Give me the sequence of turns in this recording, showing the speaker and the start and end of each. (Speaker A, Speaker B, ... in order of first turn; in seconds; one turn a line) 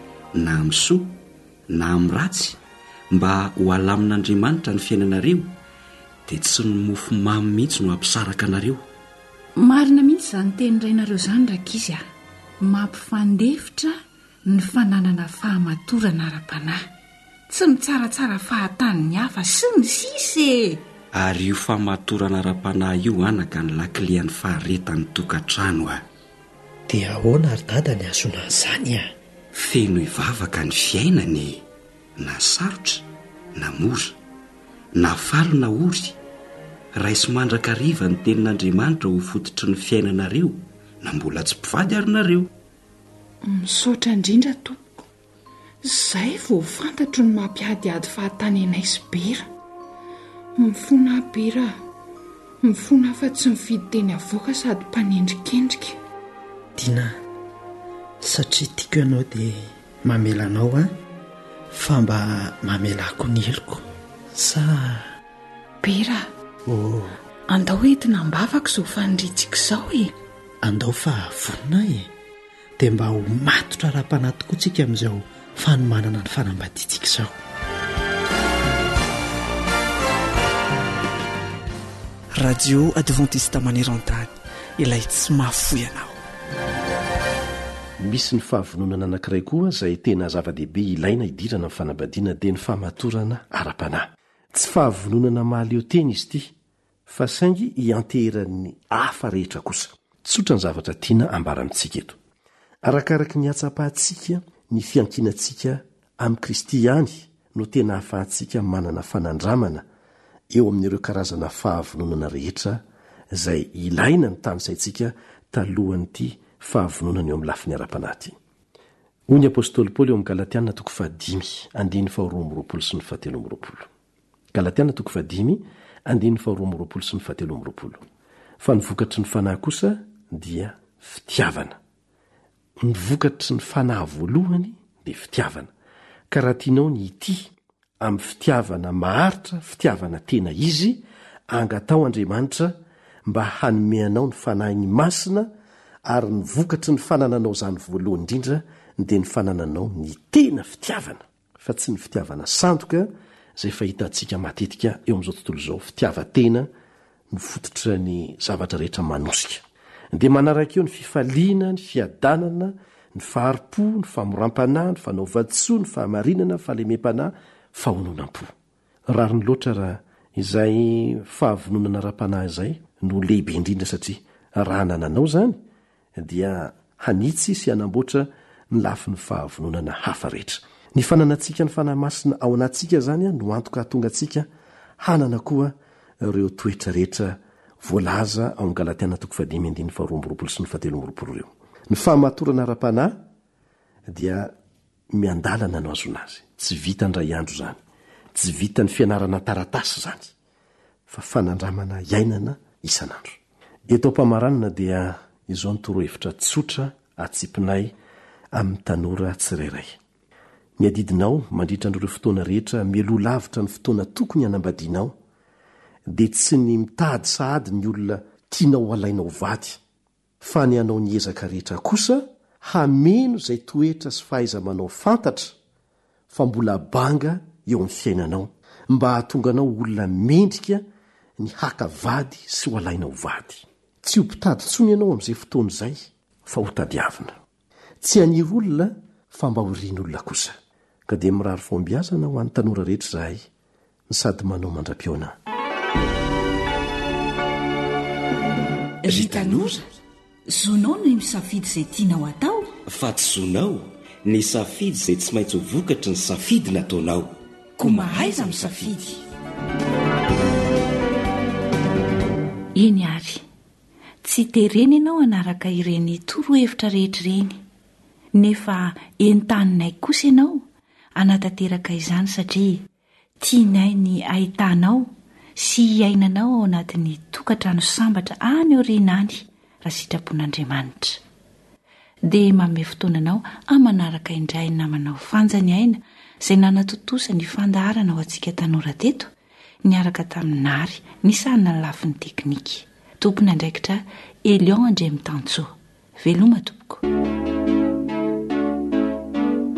Speaker A: 0.3-1.2
Speaker A: 1.7-2.6
Speaker A: 3.1-5.5
Speaker A: 6.3-8.8
Speaker B: 9.6-12.0
Speaker B: 12.6-13.9
Speaker B: 14.5-16.8
Speaker B: 17.5-20.8
Speaker A: 21.1-26.0
Speaker C: 26.9-29.1
Speaker A: 29.5-31.6
Speaker A: 32.2-34.1
Speaker A: 34.9-36.2
Speaker A: 36.9-42.5
Speaker D: 43.6-44.6
Speaker D: 45.9-49.4
Speaker D: 50.6-51.7
Speaker D: 52.6-55.9
Speaker C: 56.8-57.1
Speaker C: 58.2-60.9
Speaker C: 61.7-63.8
Speaker C: 64.3-65.0
Speaker C: 66.7-67.0
Speaker D: 69.4-69.7
Speaker C: 70.6-72.1
Speaker C: 72.8-77.3
Speaker E: 82.3-86.2
Speaker F: 88.0-96.5
Speaker F: 97.1-102.2
Speaker F: 102.8-109.8
Speaker F: 110.5-118.3
Speaker F: 119.3-123.9
Speaker F: 124.5-128.0
Speaker F: 128.6-131.8
Speaker F: 132.8-135.7
Speaker F: 136.3-145.5
Speaker F: 146.0-156.7
Speaker F: 157.3-168.5
Speaker F: 169.1-175.6
Speaker F: 176.2-184.5
Speaker F: 185.0-193.2
Speaker F: 194.1-194.5
Speaker F: 195.1-197.8
Speaker F: 198.3-200.3
Speaker F: 201.1-207.9
Speaker F: 208.5-210.0
Speaker F: 210.8-215.2
Speaker F: 216.1-219.8
Speaker F: 220.4-225.6
Speaker F: 226.3-230.8
Speaker F: 231.4-237.3
Speaker F: 238.0-240.6
Speaker F: 241.1-243.4
Speaker F: 244.1-245.3
Speaker B: 249.0-249.8
Speaker A: 249.1-249.8
Speaker B: 250.5-252.7
Speaker A: 252.8-258.9
Speaker B: 257.8-259.2
Speaker B: 262.7-263.4
Speaker B: 264.2-267.6
Speaker B: 268.3-272.9
Speaker B: 273.4-281.2
Speaker B: 282.2-289.3
Speaker B: 289.8-297.0